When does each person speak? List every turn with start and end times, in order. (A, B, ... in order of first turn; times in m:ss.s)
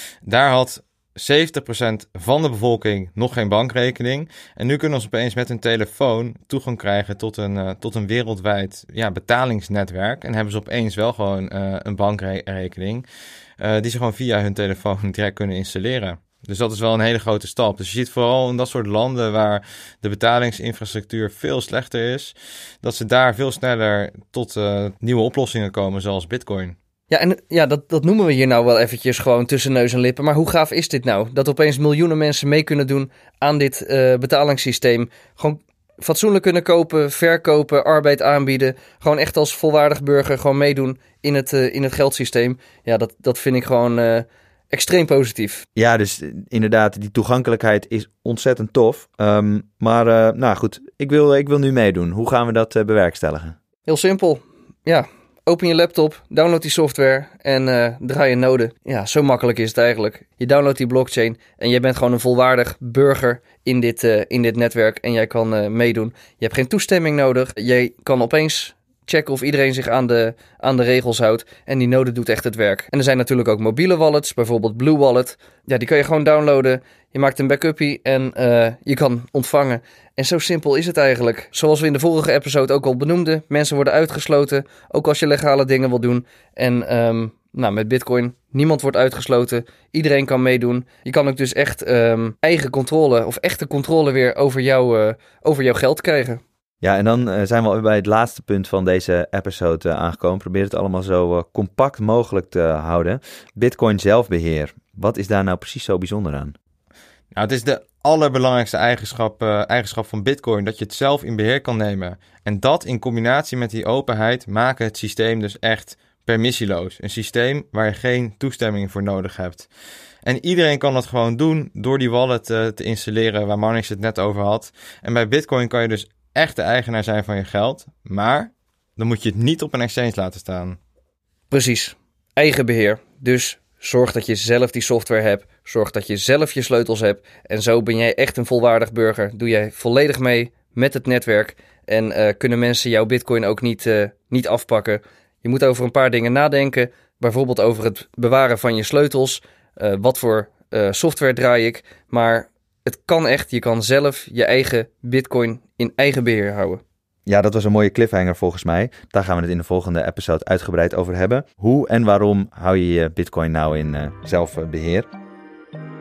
0:00.3-0:13.1 A
0:13.6-0:26.8 A
0:27.1-0:45.7 B
0:45.8-0:53.6 C
0:53.9-1:36.4 B
1:36.8-1:46.6 C
1:47.3-1:59.7 A
2:00.2-2:10.8 A
2:11.5-2:36.8 B
2:37.3-2:45.1 C